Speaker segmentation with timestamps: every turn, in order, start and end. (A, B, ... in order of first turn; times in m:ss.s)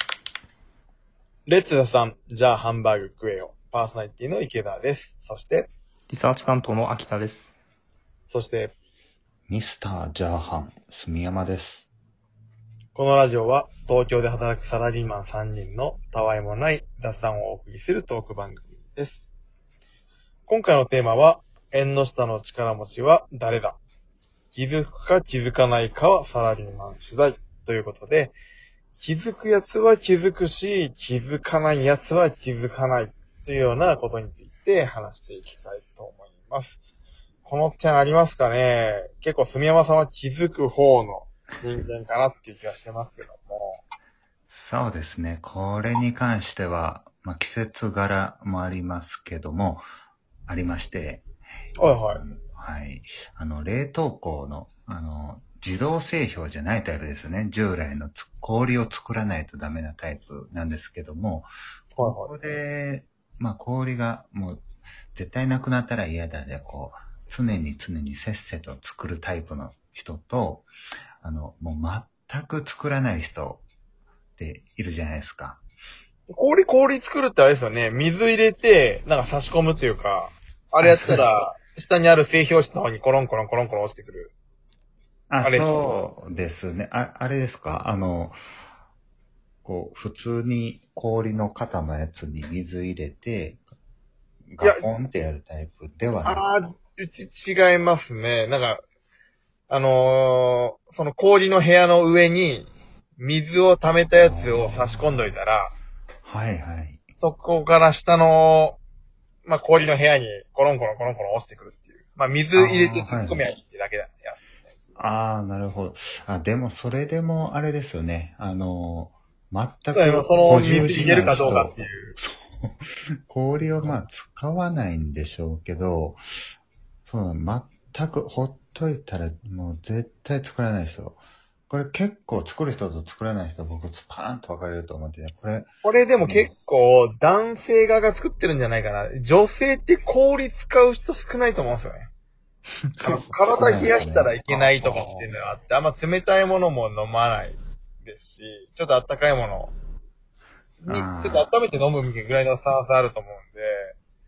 0:01.5-0:05.7 A
0:06.1-0:07.5 B
0:08.3-0:08.7 A
0:09.5-0:11.9 C
0:13.0-0:19.2 A
0:20.5-0:23.8 A
0:24.5-0:28.4 A
0:29.0-0:36.8 A
0:37.4-0:43.8 A
0:44.5-0:49.9 C
0:50.5-1:10.7 C
0:51.8-0:52.2 A
1:02.0-1:02.3 A
1:11.2-1:13.6 C
1:14.4-1:15.6 C
1:16.3-1:24.3 A
1:20.8-1:21.3 C
1:25.3-1:28.4 C
1:25.4-1:26.0 A
1:29.6-1:33.7 C
1:34.5-1:36.5 C
1:36.2-1:38.8 A
1:39.7-1:45.8 A
1:44.2-1:45.3 C
1:46.2-1:47.0 C
1:47.2-1:48.8 A
1:49.5-1:55.0 A
1:52.6-1:53.4 C
1:55.0-2:06.2 C
1:59.9-2:02.2 A
2:03.7-2:04.0 A
2:07.1-2:15.7 C
2:15.8-2:22.1 A
2:16.2-2:16.5 C
2:22.9-2:23.3 B
2:23.0-2:29.7 A
2:23.5-2:24.4 C
2:24.5-2:25.3 B
2:24.9-2:25.1 C
2:30.8-2:34.0 A
2:30.9-2:31.5 C